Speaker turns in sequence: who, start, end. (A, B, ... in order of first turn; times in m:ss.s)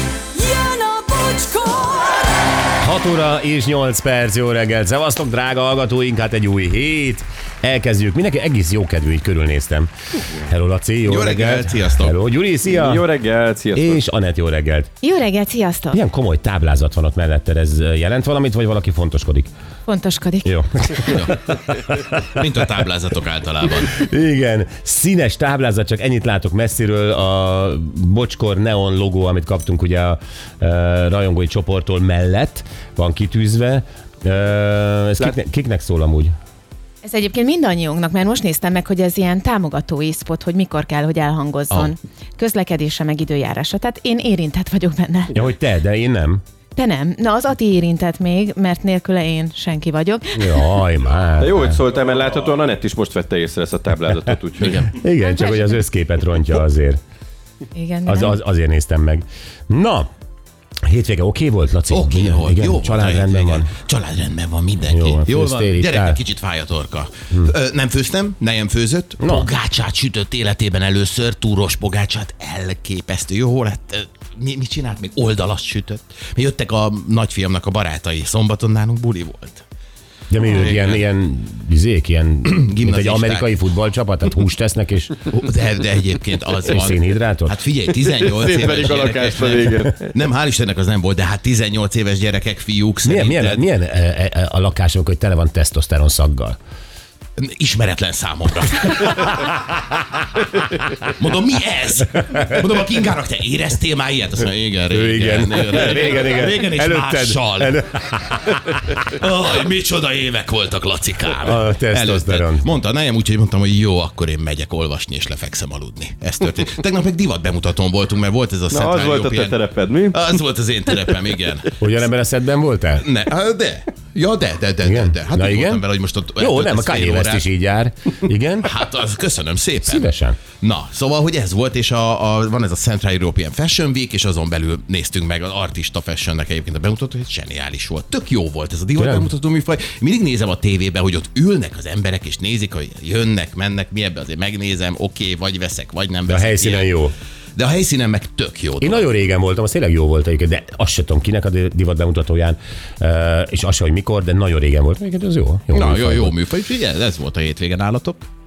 0:00.3-0:02.5 A
0:02.8-0:09.9 B
0:10.4-0:13.1 B
0:11.0-0:12.2 C
0:12.7-0:14.0 D
0:13.7-0:14.9 B
0:15.0-0:16.0 E
0:15.9-0:19.5 B
0:19.9-0:20.5 E
0:20.4-0:22.1 B
0:21.1-0:21.4 C
0:22.1-0:24.0 C
0:23.9-0:36.3 B
0:37.0-0:45.4 E
0:45.3-0:46.4 B
0:46.8-0:50.7 E
0:50.3-0:51.8 B
0:51.4-0:54.9 D
0:54.6-0:54.9 C
0:54.9-0:57.0 B
0:55.2-0:55.8 E
0:57.7-0:58.4 E
0:58.1-1:00.1 B
1:00.9-1:03.7 B
1:01.9-1:19.6 C
1:04.9-1:06.2 B
1:09.2-1:09.5 B
1:20.3-1:25.3 B
1:20.5-1:21.1 C
1:22.4-1:23.5 C
1:25.3-1:33.6 C
1:26.7-1:27.6 B
1:28.1-1:30.1 D
1:33.0-1:36.6 B
1:37.4-1:39.4 C
1:39.0-1:40.0 B
1:41.0-2:01.8 C
1:44.9-1:49.0 B
1:51.4-1:52.7 B
1:58.7-2:00.2 D
2:01.8-2:03.0 B
2:03.0-2:07.5 C
2:04.8-2:05.8 B
2:06.4-2:08.7 B
2:08.6-2:26.9 C
2:09.8-2:10.4 B
2:19.0-2:19.3 B
2:26.3-2:27.1 B
2:27.6-2:29.1 C
2:28.8-2:36.4 B
2:35.7-2:38.3 C